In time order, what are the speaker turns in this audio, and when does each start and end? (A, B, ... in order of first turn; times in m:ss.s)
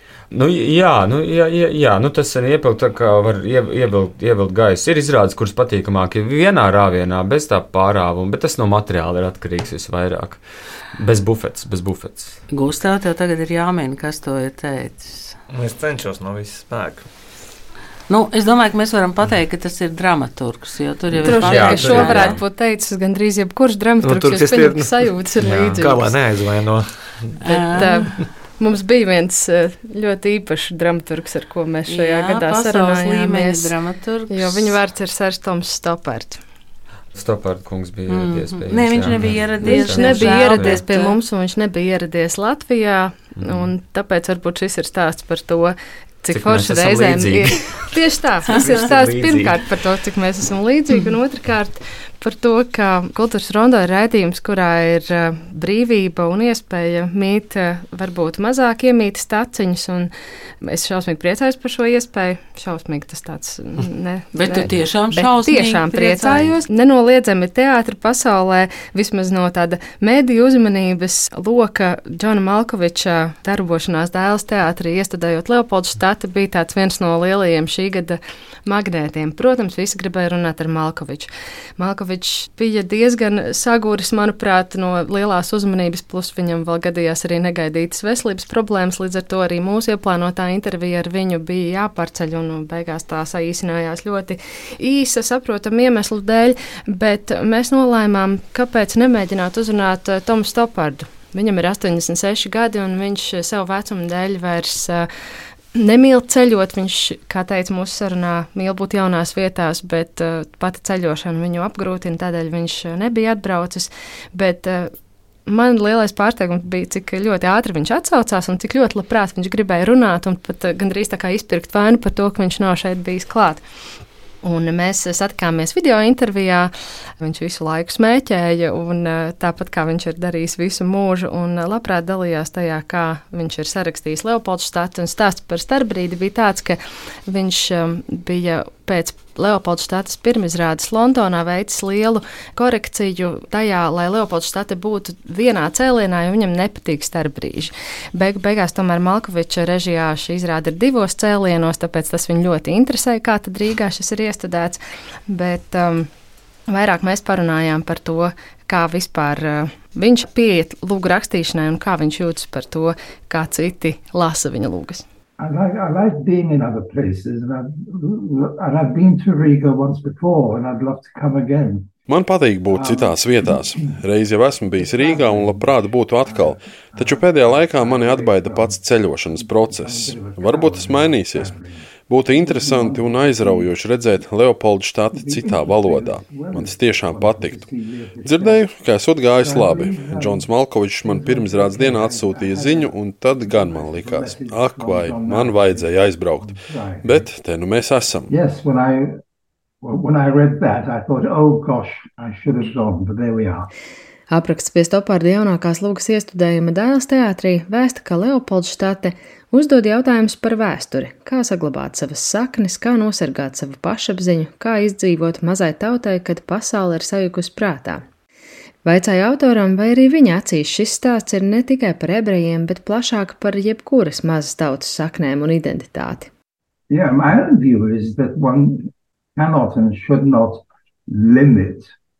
0:00.3-0:10.4 A
0:10.9-0:12.4 A
0:12.5-0:15.4 B
0:15.5-0:17.1 C
0:18.1-0:22.4 B
0:21.2-0:26.2 D
0:21.3-0:22.4 A
0:24.0-0:28.2 C
0:27.4-0:28.1 B
0:27.7-0:33.7 D
0:31.9-0:34.8 B
0:34.3-0:36.4 D
0:37.1-0:40.8 A
0:38.1-0:41.1 B
0:39.6-1:45.1 D
0:43.4-0:43.7 A
0:46.3-0:47.9 A
0:48.5-0:49.6 A
0:48.5-0:48.8 B
1:04.3-1:06.5 B
1:45.7-1:54.9 D
1:55.5-2:03.6 D
2:04.4-2:36.1 D
2:36.7-2:45.0 D
2:45.4-2:52.0 E
2:52.1-3:01.5 F
2:52.7-2:54.0 E
2:54.7-3:03.9 E
3:02.1-3:07.7 F
3:05.1-3:17.3 E
3:08.2-3:18.3 F
3:18.3-3:19.2 E
3:19.8-3:23.7 E
3:24.3-3:38.1 D
3:38.8-3:46.3 D
3:46.9-3:51.9 E